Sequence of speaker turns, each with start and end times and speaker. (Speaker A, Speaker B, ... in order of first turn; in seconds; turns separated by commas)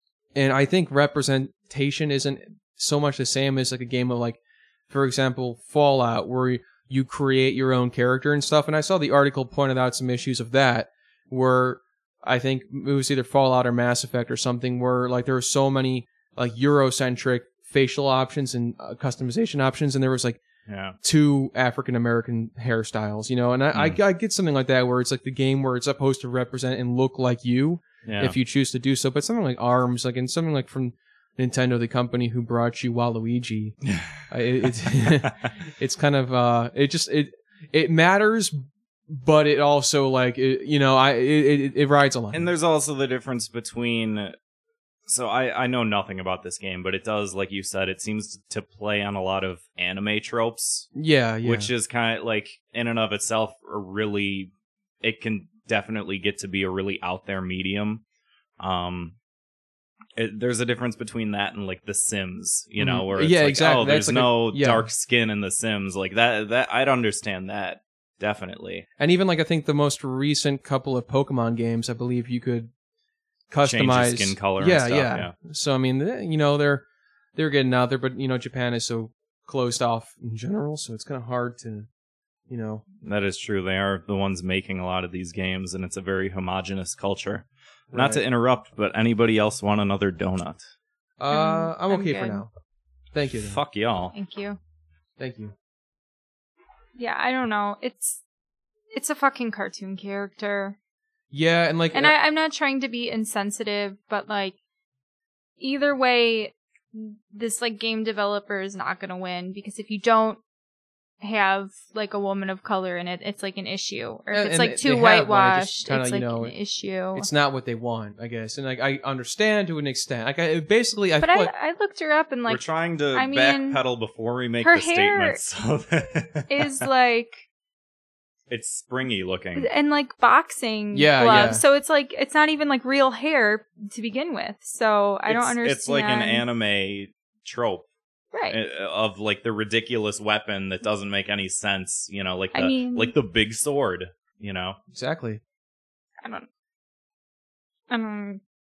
Speaker A: 0.3-20.4, Speaker B: 20.6-21.0, Speaker A: 21.0-33.8, Speaker B: 23.7-24.0, Speaker B: 28.0-28.3, Speaker B: 33.8-35.5, Speaker A: 34.3-38.6, Speaker A: 39.1-42.5, Speaker B: 42.3-44.3, Speaker B: 45.1-50.9, Speaker A: 50.9-51.7, Speaker B: 51.4-54.5, Speaker B: 55.0-58.0, Speaker B: 58.6-59.1, Speaker B: 60.2-68.8, Speaker A: 62.8-64.9, Speaker A: 69.0-72.7, Speaker A: 73.5-76.8, Speaker B: 73.6-75.3, Speaker A: 77.4-81.9, Speaker A: 82.5-82.8, Speaker B: 83.0-90.6, Speaker A: 87.9-88.2, Speaker A: 91.2-92.5, Speaker C: 91.3-92.4, Speaker A: 93.1-93.6, Speaker B: 93.4-94.1, Speaker C: 94.1-94.6, Speaker A: 95.2-95.5, Speaker C: 97.0-98.2, Speaker C: 98.9-100.8, Speaker A: 101.3-102.1, Speaker C: 101.9-104.5, Speaker C: 105.6-110.4, Speaker C: 111.2-117.3, Speaker A: 114.3-116.5, Speaker A: 117.1-121.5, Speaker C: 121.2-123.8, Speaker B: 122.5-126.8, Speaker C: 124.6-125.4, Speaker C: 126.5-127.4, Speaker B: 128.5-129.7, Speaker C: 129.6-136.4, Speaker A: 130.9-131.6, Speaker B: 135.3-137.9, Speaker C: 138.3-138.6, Speaker B: 138.5-144.8, Speaker C: 142.5-143.1, Speaker A: 144.9-145.4, Speaker C: 146.2-146.5, Speaker C: 147.9-148.4